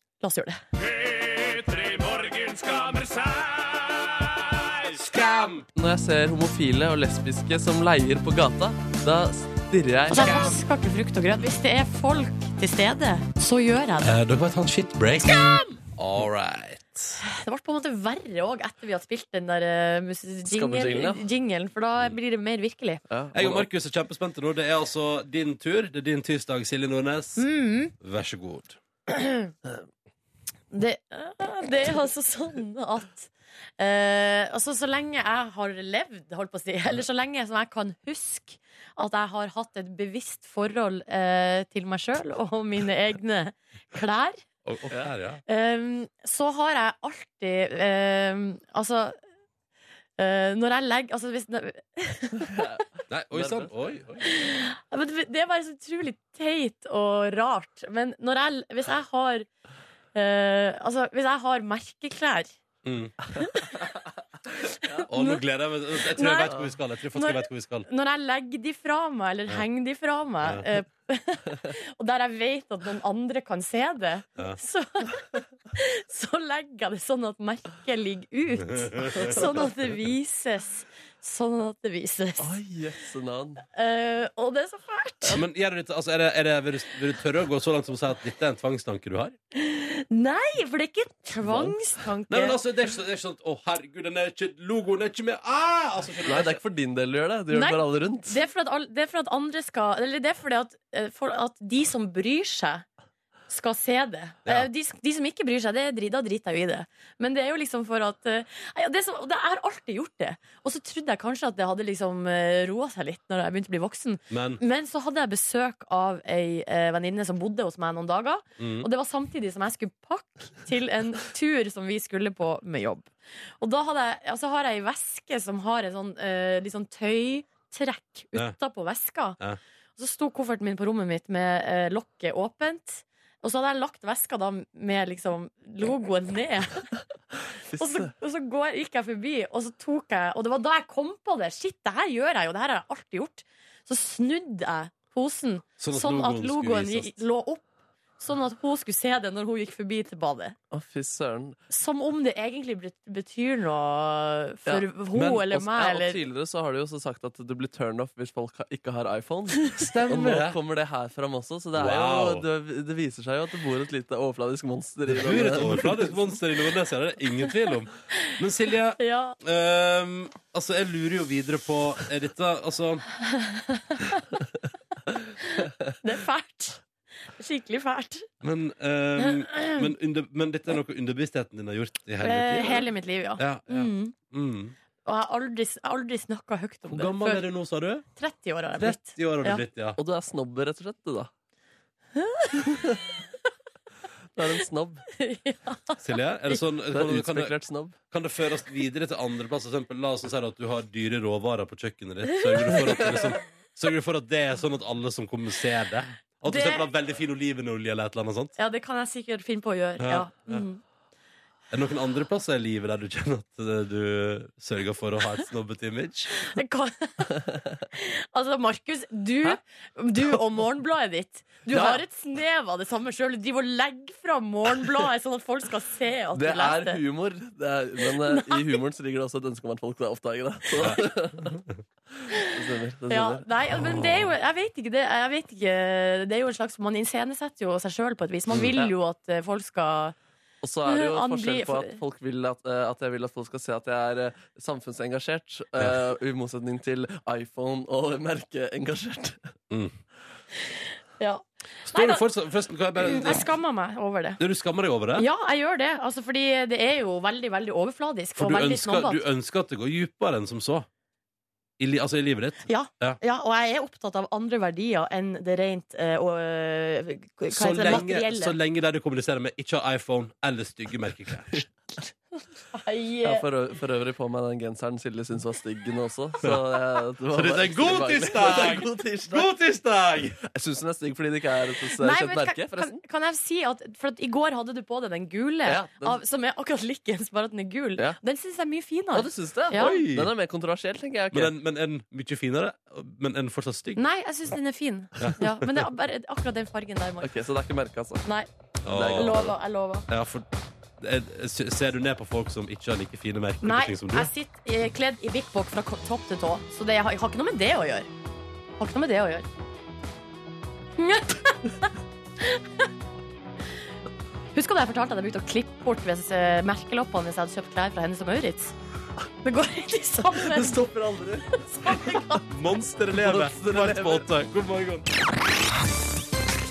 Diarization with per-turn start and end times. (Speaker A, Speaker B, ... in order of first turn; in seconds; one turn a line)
Speaker A: 0.2-0.6
Speaker B: 0.9-5.7
Speaker C: 5.8-10.4
Speaker A: 10.1-14.2
Speaker B: 10.2-10.5
Speaker B: 14.0-17.2
Speaker A: 17.2-23.0
Speaker C: 20.5-21.3
Speaker C: 23.1-23.7
Speaker B: 23.3-27.5
Speaker A: 27.4-27.9
Speaker B: 28.0-28.8
Speaker A: 29.1-29.5
Speaker A: 30.7-44.4
Speaker B: 44.6-45.4
Speaker A: 45.5-49.2
Speaker A: 50.2-52.7
Speaker C: 52.5-53.7
Speaker B: 53.1-54.3
Speaker A: 54.2-59.5
Speaker A: 60.1-62.5
Speaker B: 62.8-63.2
Speaker A: 63.4-63.8
Speaker A: 65.0-65.4
Speaker B: 65.1-67.9
Speaker A: 66.0-66.6
Speaker A: 67.1-82.6
Speaker B: 78.7-79.6
Speaker C: 79.2-79.6
Speaker C: 82.4-83.7
Speaker A: 83.7-85.4
Speaker B: 85.3-89.4
Speaker A: 89.5-92.6
Speaker C: 91.4-91.7
Speaker B: 92.3-96.6
Speaker C: 96.3-98.4
Speaker A: 97.5-102.8
Speaker A: 103.5-129.4
Speaker B: 114.3-114.6
Speaker B: 118.6-118.9
Speaker A: 130.0-136.9
Speaker C: 137.7-138.1
Speaker A: 137.8-147.7
Speaker B: 145.8-147.2
Speaker A: 148.2-150.6
Speaker C: 150.7-151.6
Speaker A: 151.7-156.2
Speaker C: 154.7-166.1
Speaker B: 159.8-160.6
Speaker B: 161.8-162.4
Speaker B: 165.1-173.1
Speaker A: 169.0-169.4
Speaker A: 173.4-174.2
Speaker A: 175.4-176.8
Speaker A: 177.4-178.3
Speaker B: 178.4-182.9
Speaker A: 179.2-179.8
Speaker A: 182.2-184.1
Speaker B: 183.4-184.8
Speaker A: 185.1-187.5
Speaker B: 186.9-188.1
Speaker A: 188.2-189.6
Speaker B: 188.8-190.0
Speaker C: 190.0-191.3
Speaker A: 192.2-192.7
Speaker C: 192.6-193.0
Speaker C: 194.4-195.1
Speaker A: 195.2-196.6
Speaker B: 196.0-197.6
Speaker C: 196.9-198.0
Speaker B: 198.1-208.5
Speaker A: 202.5-202.8
Speaker A: 206.5-206.9
Speaker A: 208.6-210.8
Speaker B: 210.0-210.7
Speaker B: 211.7-216.3
Speaker A: 216.4-217.4
Speaker A: 217.9-227.0
Speaker C: 221.7-222.0
Speaker C: 226.3-231.6
Speaker A: 228.3-228.6
Speaker B: 230.8-231.6
Speaker C: 232.1-234.1
Speaker A: 233.1-240.2
Speaker B: 238.5-238.8
Speaker C: 240.6-249.5
Speaker A: 240.9-242.0
Speaker A: 250.7-252.3
Speaker B: 251.9-253.5
Speaker A: 252.9-254.4
Speaker B: 254.4-255.3
Speaker A: 255.1-259.2
Speaker B: 258.4-260.9
Speaker B: 261.8-263.2
Speaker A: 262.7-268.6
Speaker B: 267.5-271.6
Speaker A: 272.7-273.4
Speaker C: 273.2-279.5
Speaker B: 277.3-280.4
Speaker C: 280.4-283.0
Speaker A: 282.0-290.0
Speaker C: 285.7-286.2
Speaker C: 289.1-291.5
Speaker B: 289.8-290.3
Speaker B: 291.3-294.0
Speaker A: 294.0-297.3
Speaker B: 295.2-295.7
Speaker C: 297.2-298.2
Speaker B: 298.8-299.5
Speaker C: 298.9-299.5
Speaker A: 299.0-300.1
Speaker B: 300.1-300.5
Speaker B: 301.0-304.3
Speaker A: 303.6-308.1
Speaker A: 308.8-309.5
Speaker A: 311.0-311.9
Speaker A: 314.6-318.7
Speaker A: 319.4-320.8
Speaker B: 320.5-325.1
Speaker C: 320.6-322.2
Speaker A: 321.8-322.4
Speaker C: 323.2-324.3